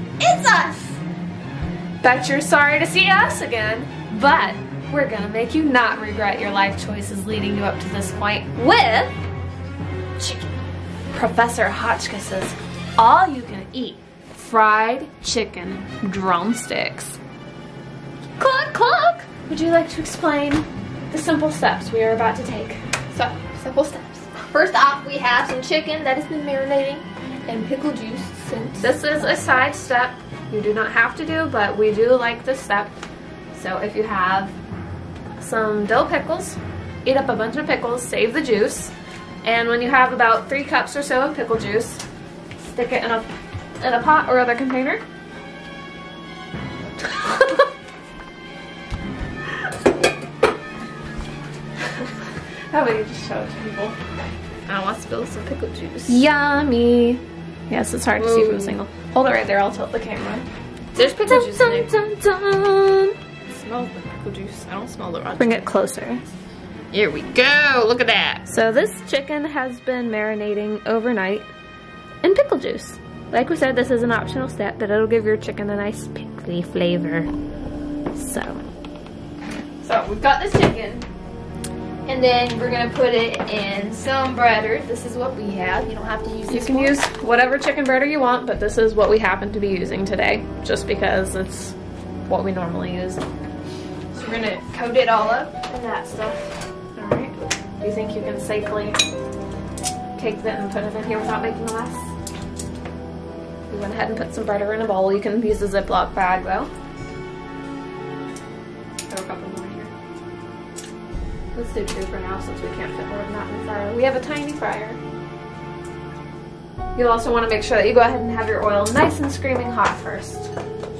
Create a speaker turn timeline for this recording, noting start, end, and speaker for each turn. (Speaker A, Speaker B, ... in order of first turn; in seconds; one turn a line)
Speaker A: 0.2-1.0
Speaker B: 2.0-9.1
Speaker A: 10.2-10.4
Speaker B: 11.1-17.2
Speaker B: 18.4-22.8
Speaker A: 23.1-29.6
Speaker B: 28.8-33.0
Speaker B: 33.5-34.5
Speaker B: 35.4-42.0
Speaker B: 42.6-43.3
Speaker B: 43.8-45.0
Speaker B: 47.2-47.6
Speaker B: 52.7-54.0
Speaker A: 54.7-56.2
Speaker B: 56.1-61.9
Speaker A: 58.2-58.8
Speaker A: 61.0-65.7
Speaker B: 65.4-66.2
Speaker A: 66.9-68.4
Speaker B: 68.5-71.5
Speaker B: 72.2-77.3
Speaker B: 78.1-78.6
Speaker A: 79.8-81.0
Speaker A: 82.0-87.0
Speaker B: 86.5-91.8
Speaker B: 92.3-93.2
Speaker A: 94.1-95.7
Speaker B: 95.7-96.4
Speaker B: 96.9-99.0
Speaker B: 100.2-102.1
Speaker B: 103.7-106.7
Speaker B: 109.1-109.9
Speaker B: 111.5-115.0
Speaker B: 116.9-120.5